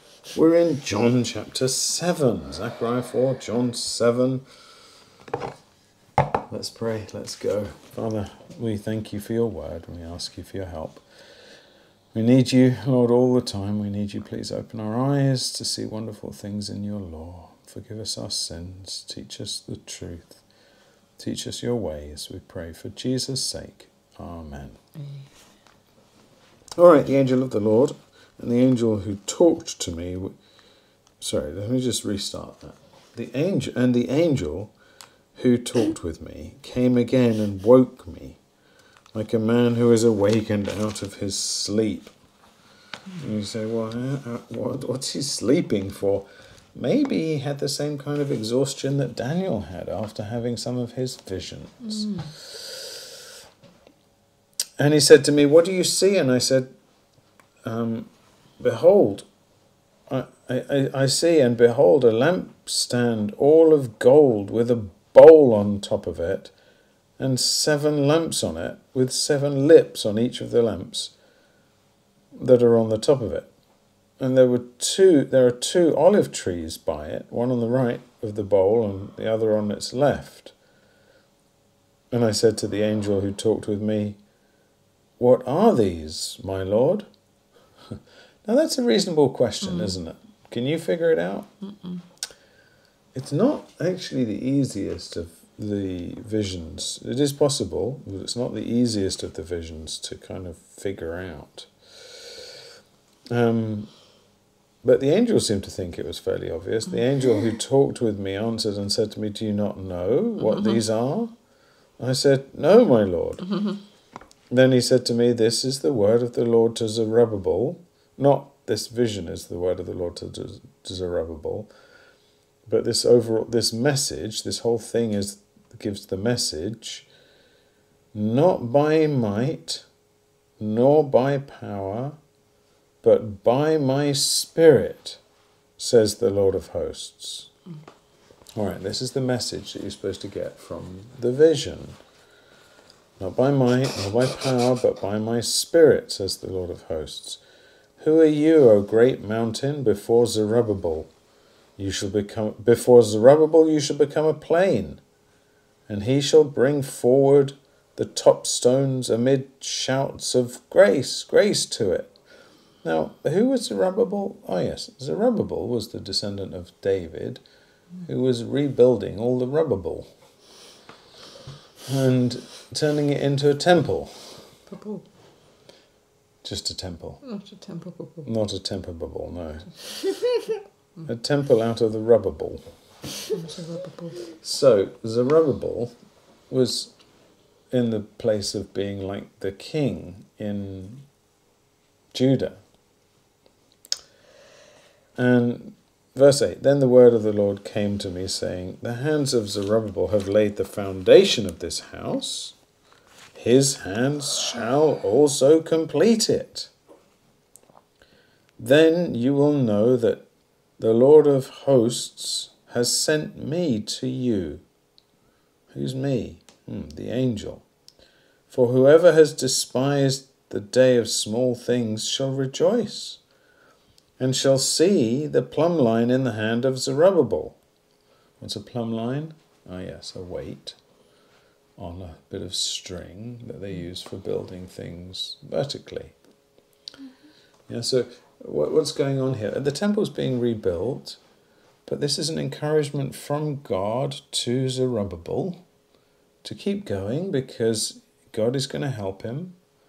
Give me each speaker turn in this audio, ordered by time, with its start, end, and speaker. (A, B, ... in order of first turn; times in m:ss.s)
0:00.3-0:04.4 A
0:06.5-0:11.0 A
0:12.1-0:20.4 A
0:21.2-0:24.8 A
0:26.8-0:30.4 A
0:31.2-0:34.7 A
0:35.3-0:38.4 A
0:39.1-0:42.1 A
0:43.2-0:52.8 A
0:52.0-0:52.3 B
0:54.8-0:56.7 A
0:57.6-0:59.3 A
1:00.1-1:06.5 A
1:07.2-1:11.1 A
1:12.3-1:13.5 A
1:14.2-1:20.5 A
1:22.1-1:24.2 A
1:25.2-1:27.0 A
1:27.9-1:31.5 A
1:29.6-1:29.9 B
1:31.6-1:32.0 B
1:33.1-1:42.4 A
1:43.3-1:43.9 A
1:44.8-1:51.3 A
1:52.0-1:53.7 A
1:54.5-2:01.7 A
2:02.7-2:07.1 A
2:08.1-2:09.8 A
2:10.6-2:12.2 A
2:13.0-2:15.2 A
2:15.8-2:17.5 A
2:18.6-2:22.0 A
2:23.2-2:27.4 A
2:28.0-2:31.1 A
2:31.8-2:35.0 A
2:35.9-2:42.1 A
2:42.8-2:47.4 A
2:48.0-2:50.1 A
2:51.8-2:54.4 A
2:54.7-2:55.1 B
2:56.4-2:57.2 A
2:57.2-2:58.3 B
2:58.2-3:00.2 A
3:01.0-3:02.7 A
3:03.3-3:04.2 B
3:04.4-3:05.9 A
3:06.5-3:06.9 A
3:07.7-3:11.1 A
3:12.1-3:12.6 A
3:15.2-3:22.6 A
3:23.3-3:26.7 A
3:28.6-3:30.3 A
3:30.8-3:34.6 A
3:35.7-3:37.6 A
3:38.5-3:43.2 A
3:44.2-3:47.6 A
3:48.4-3:50.8 A
3:51.8-3:56.1 A
3:57.7-4:01.2 A
4:01.8-4:05.6 A
4:06.4-4:09.6 A